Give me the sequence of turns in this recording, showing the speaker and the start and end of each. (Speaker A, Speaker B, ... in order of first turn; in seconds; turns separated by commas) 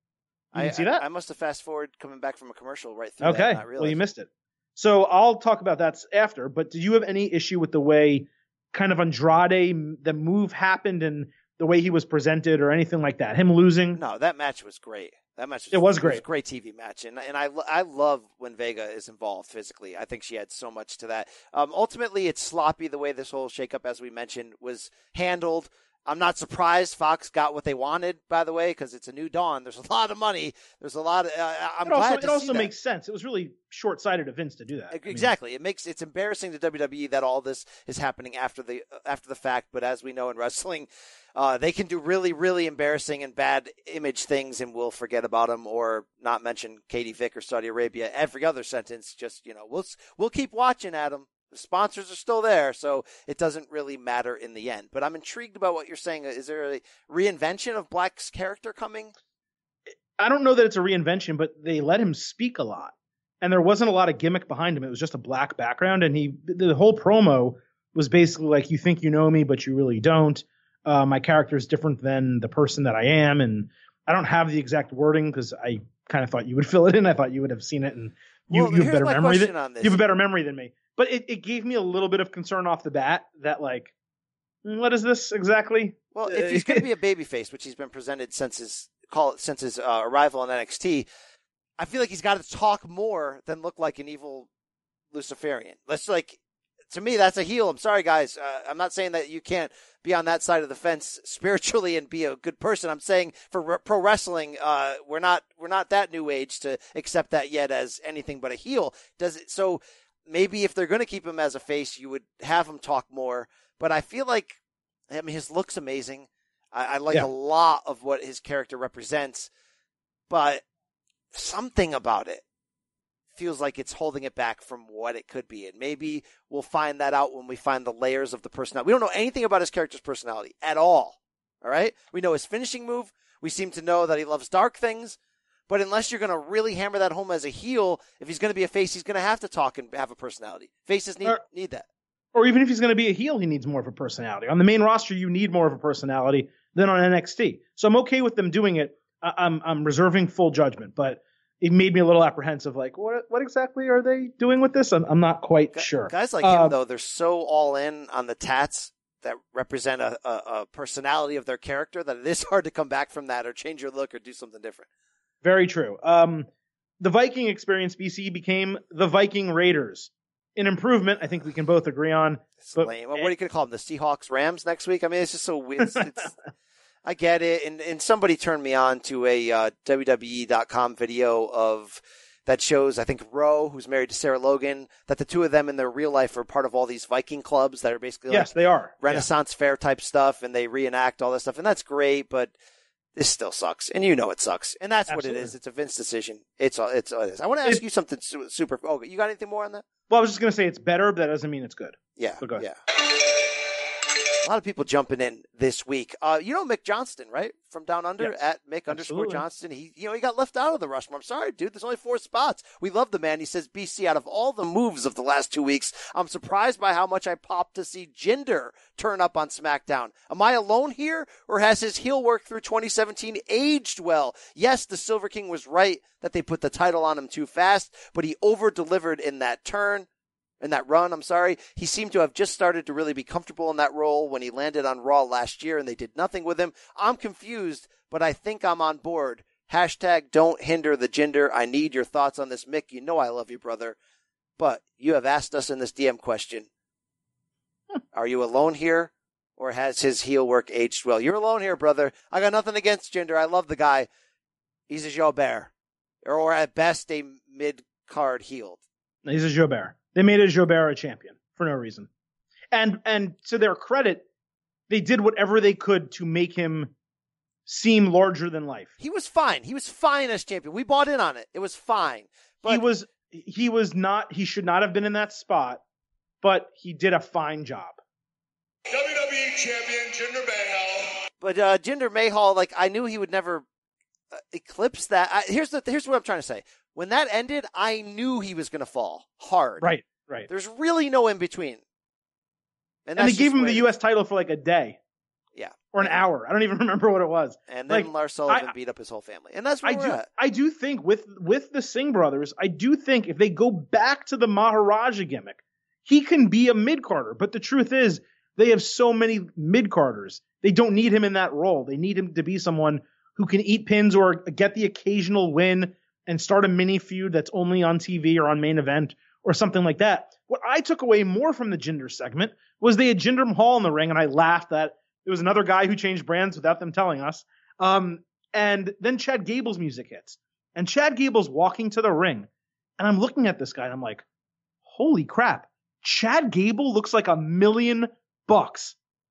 Speaker A: 0.5-4.0, Speaker B: 0.5-1.0, Speaker B: 3.2-14.0, Speaker A: 13.9-32.7, Speaker B: 15.7-16.2, Speaker B: 31.8-35.3, Speaker A: 34.9-59.1, Speaker B: 60.2-83.9, Speaker A: 78.5-80.0, Speaker B: 84.6-86.8, Speaker A: 86.1-91.1, Speaker A: 91.8-94.5, Speaker A: 95.1-114.6, Speaker A: 115.1-119.5, Speaker A: 120.3-120.6, Speaker A: 121.3-122.4, Speaker A: 123.3-135.2, Speaker A: 135.7-141.8, Speaker B: 142.3-156.8, Speaker A: 155.7-164.8, Speaker B: 165.4-166.5, Speaker B: 167.0-173.3, Speaker A: 172.6-176.3, Speaker B: 175.8-176.2, Speaker A: 177.0-192.5, Speaker B: 188.3-189.3, Speaker A: 193.2-199.8, Speaker B: 195.1-195.5, Speaker B: 200.1-202.7, Speaker A: 202.2-202.8, Speaker A: 204.4-230.1, Speaker B: 208.9-209.4, Speaker A: 230.6-243.9, Speaker A: 244.6-246.7, Speaker A: 248.1-254.1, Speaker A: 254.9-255.7, Speaker A: 256.2-258.8, Speaker B: 259.2-262.1, Speaker B: 262.7-264.2, Speaker B: 264.9-266.9, Speaker B: 267.6-268.9, Speaker A: 269.0-272.9, Speaker B: 272.6-275.8, Speaker B: 276.4-278.0, Speaker C: 278.9-281.2, Speaker A: 281.4-283.6, Speaker A: 284.3-289.9, Speaker B: 289.8-290.5, Speaker A: 290.5-291.8, Speaker A: 293.0-293.9, Speaker B: 293.2-295.0, Speaker A: 295.6-296.2, Speaker B: 295.9-298.7, Speaker A: 297.7-300.2, Speaker B: 299.8-332.5, Speaker B: 333.0-334.2, Speaker B: 334.9-338.9